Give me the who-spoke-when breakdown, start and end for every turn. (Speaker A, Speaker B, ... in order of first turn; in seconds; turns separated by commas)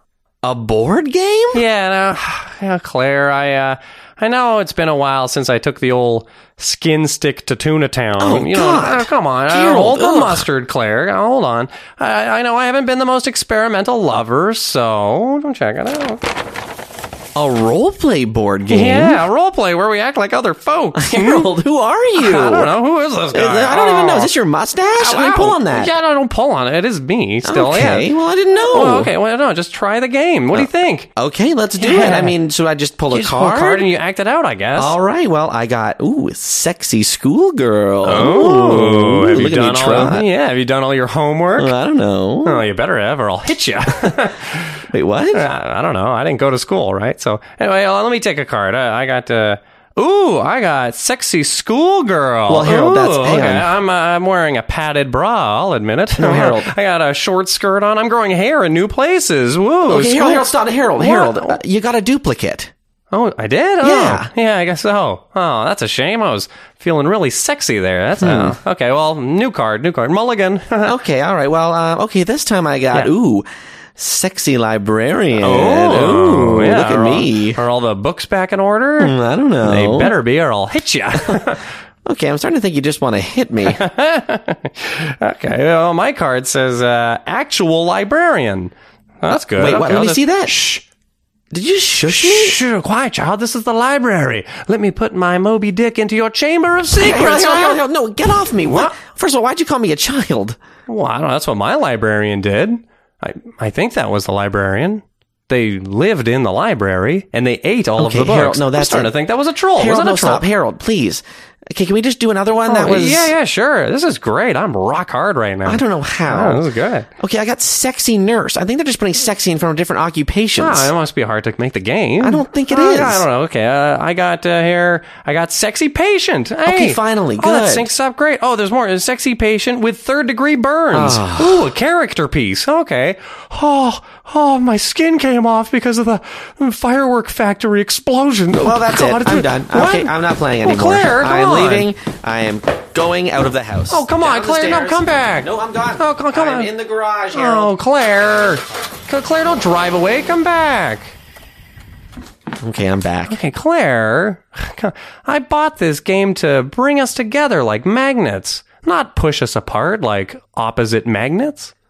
Speaker A: 0.4-1.6, Speaker B: 1.5-16.2, Speaker A: 8.2-10.4, Speaker A: 17.4-19.2, Speaker B: 18.7-21.5, Speaker A: 21.0-22.7, Speaker B: 22.1-24.3, Speaker A: 23.3-25.9, Speaker B: 25.0-28.1, Speaker A: 27.4-29.1, Speaker B: 28.6-31.1, Speaker A: 30.5-33.9, Speaker B: 31.8-32.4, Speaker B: 33.1-35.0, Speaker A: 34.8-40.2, Speaker B: 38.0-41.7, Speaker A: 41.5-42.6, Speaker B: 42.4-44.8, Speaker A: 44.9-45.4, Speaker B: 45.3-61.6, Speaker A: 52.5-53.7, Speaker A: 56.2-56.7, Speaker A: 59.8-62.7, Speaker B: 63.1-71.0, Speaker A: 63.8-64.3, Speaker A: 68.2-68.5, Speaker A: 70.8-73.5, Speaker A: 74.0-77.6, Speaker B: 75.4-81.6, Speaker A: 79.0-80.1, Speaker A: 81.2-81.5, Speaker A: 82.0-83.8, Speaker B: 83.7-90.8, Speaker A: 89.5-90.6, Speaker A: 91.5-92.6, Speaker B: 92.1-97.8, Speaker A: 96.9-100.6, Speaker B: 98.6-99.0, Speaker B: 100.9-110.5, Speaker A: 108.0-109.1, Speaker A: 109.8-113.3, Speaker B: 112.6-117.1, Speaker A: 115.7-116.6, Speaker A: 117.2-120.9, Speaker B: 120.6-141.9, Speaker A: 122.2-123.2, Speaker A: 126.7-127.9, Speaker A: 130.9-131.6, Speaker A: 138.6-147.7, Speaker B: 143.9-146.7, Speaker B: 147.3-151.1, Speaker A: 152.6-153.4, Speaker B: 153.3-161.7